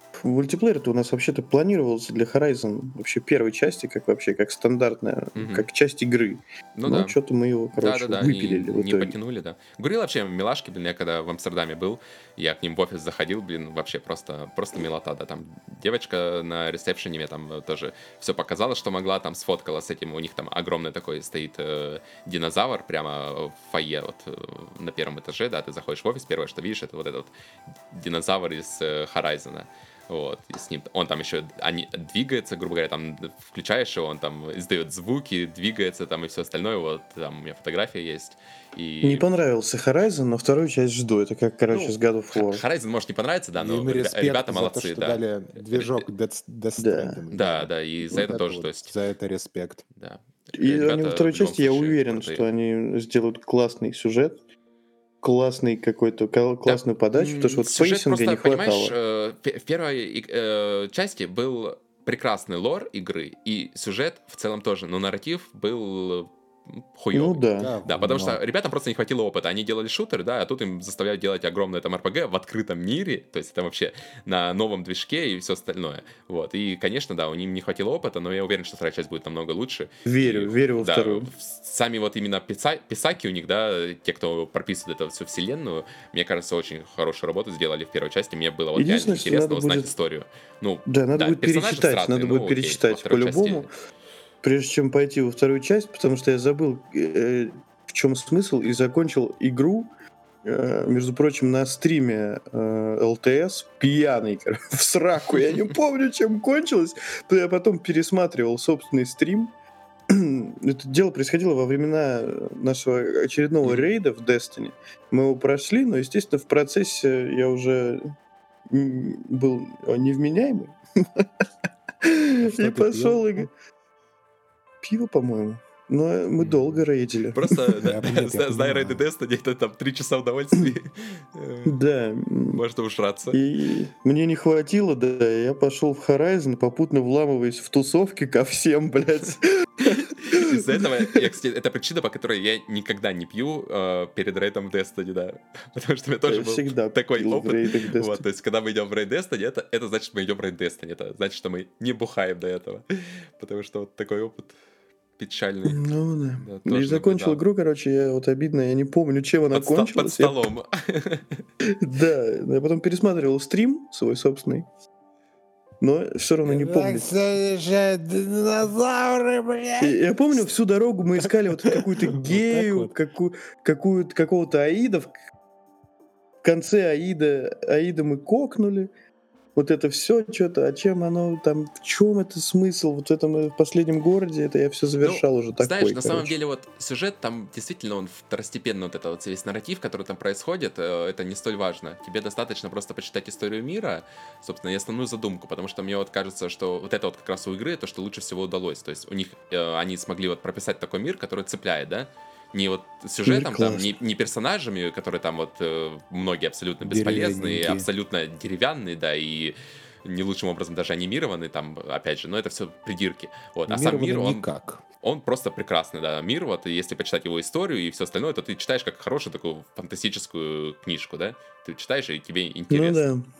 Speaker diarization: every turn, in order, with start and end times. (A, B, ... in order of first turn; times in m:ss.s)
0:00.2-0:09.2 A
0:05.4-0:05.7 B
0:06.8-0:07.2 B
0:07.7-0:27.3 B
0:27.9-0:39.3 B
0:39.0-0:42.6 A
0:41.7-0:46.1 B
0:43.6-0:49.8 C
0:46.8-0:47.2 A
0:47.3-0:49.0 B
0:50.0-0:52.5 B
0:50.5-0:54.4 A
0:55.2-0:59.0 A
0:56.7-1:33.7 B
1:07.1-1:07.7 A
1:07.6-1:08.4 C
1:20.0-1:21.3 A
1:28.8-1:29.9 A
1:30.9-1:33.7 A
1:34.4-1:39.9 A
1:40.4-1:49.5 A
1:50.1-1:58.1 A
1:53.6-1:53.9 B
1:58.7-2:01.3 A
2:02.0-2:03.5 A
2:02.4-2:03.5 C
2:04.8-2:07.6 A
2:07.3-2:11.8 B
2:07.8-2:09.0 C
2:11.6-2:12.6 A
2:12.5-2:13.4 B
2:13.3-2:21.2 A
2:20.0-2:34.6 B
2:26.2-2:28.2 A
2:35.2-2:37.4 B
2:35.6-2:40.4 A
2:39.5-2:41.4 B
2:41.7-2:44.7 A
2:45.8-2:47.1 A
2:46.4-2:50.4 C
2:49.8-2:55.2 A
2:51.2-2:52.9 C
2:56.4-2:58.9 A
2:59.6-3:06.3 A
3:05.0-3:34.5 B
3:23.3-3:24.0 A
3:26.8-3:27.9 C
3:33.7-3:34.8 C
3:35.0-3:43.0 B
3:42.7-3:43.3 A